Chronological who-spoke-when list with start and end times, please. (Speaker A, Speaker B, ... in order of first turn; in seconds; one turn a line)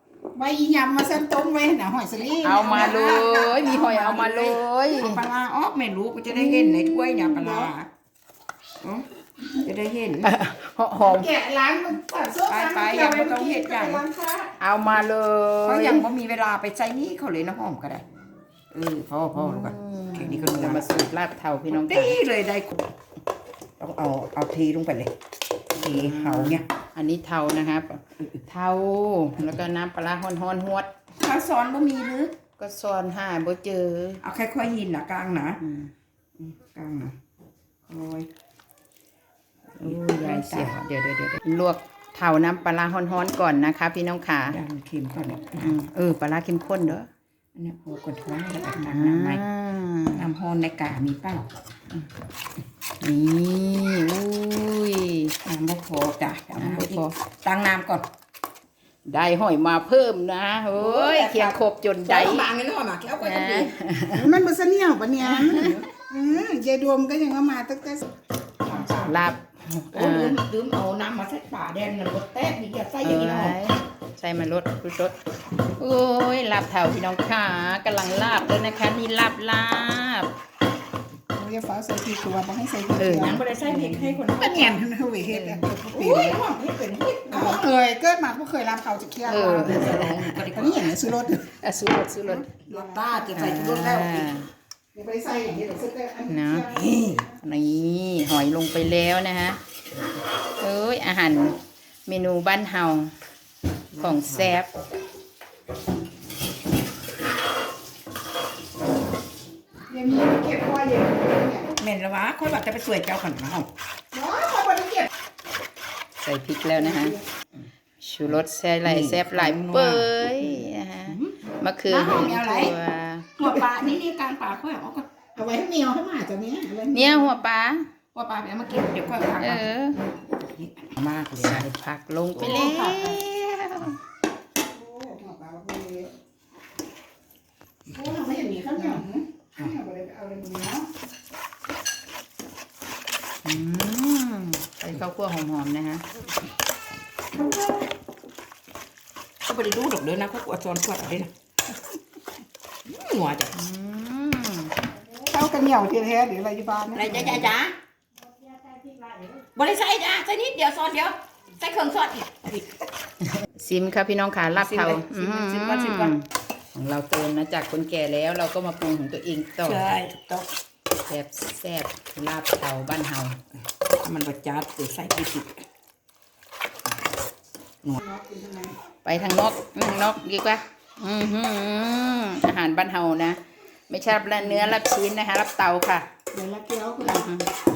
Speaker A: 0.3-3.3
Speaker B: 2.4-5.2
Speaker C: 2.5-7.9
Speaker B: 6.3-7.6
Speaker A: 7.4-7.7
Speaker C: 9.6-10.3
Speaker B: 10.2-11.3
Speaker A: 11.0-14.6
Speaker C: 12.5-14.0
Speaker B: 14.6-16.1
Speaker C: 15.6-18.1
Speaker C: 18.7-21.0
Speaker B: 19.3-22.2
Speaker C: 21.7-22.9
Speaker C: 23.8-25.1
Speaker B: 25.8-30.9
Speaker C: 25.8-26.7
Speaker C: 31.2-32.4
Speaker B: 32.6-34.2
Speaker C: 34.2-35.6
Speaker B: 35.6-35.9
Speaker C: 36.4-37.2
Speaker C: 37.9-38.3
Speaker B: 39.8-44.6
Speaker C: 39.8-40.8
Speaker C: 44.5-45.8
Speaker B: 45.6-47.1
Speaker C: 47.5-49.4
Speaker B: 48.7-50.3
Speaker C: 50.1-51.5
Speaker B: 53.0-55.4
Speaker C: 55.5-58.1
Speaker B: 56.6-57.1
Speaker B: 59.1-62.5
Speaker C: 60.7-63.7
Speaker B: 63.2-64.3
Speaker A: 64.2-68.1
Speaker B: 65.2-65.8
Speaker C: 68.6-69.2
Speaker B: 68.9-70.4
Speaker C: 69.9-73.6
Speaker B: 73.0-75.2
Speaker B: 75.8-80.3
Speaker A: 81.3-83.4
Speaker B: 82.9-84.2
Speaker C: 83.1-84.8
Speaker A: 84.3-86.4
Speaker B: 85.3-85.7
Speaker C: 85.9-87.7
Speaker A: 87.3-91.6
Speaker B: 89.2-90.3
Speaker C: 89.6-91.1
Speaker B: 91.6-92.6
Speaker A: 92.3-94.3
Speaker C: 92.7-94.1
Speaker B: 93.3-94.5
Speaker A: 94.9-97.2
Speaker B: 96.3-96.7
Speaker C: 96.7-97.3
Speaker B: 97.4-99.6
Speaker B: 100.6-103.1
Speaker C: 103.9-104.5
Speaker B: 104.0-104.7
Speaker A: 109.9-111.7
Speaker C: 111.8-113.7
Speaker A: 114.1-115.1
Speaker B: 116.2-117.2
Speaker A: 116.8-117.2
Speaker B: 118.0-123.3
Speaker C: 118.8-121.3
Speaker C: 121.9-122.8
Speaker C: 123.4-125.1
Speaker A: 125.3-127.3
Speaker B: 126.9-127.9
Speaker C: 128.1-129.7
Speaker B: 129.4-130.0
Speaker C: 130.3-131.7
Speaker B: 131.4-134.0
Speaker C: 132.3-133.2
Speaker A: 134.6-136.1
Speaker A: 137.9-140.9
Speaker B: 143.4-146.0
Speaker C: 149.5-151.3
Speaker C: 152.9-153.6
Speaker B: 153.6-154.7
Speaker A: 155.2-157.5
Speaker C: 156.9-157.7
Speaker A: 158.6-159.3
Speaker C: 159.5-162.8
Speaker B: 163.2-169.8
Speaker C: 164.5-166.2
Speaker C: 169.6-170.5
Speaker B: 171.1-173.4
Speaker C: 174.0-175.6
Speaker A: 178.0-178.8
Speaker B: 179.1-186.1
Speaker A: 186.3-187.3
Speaker B: 187.0-187.5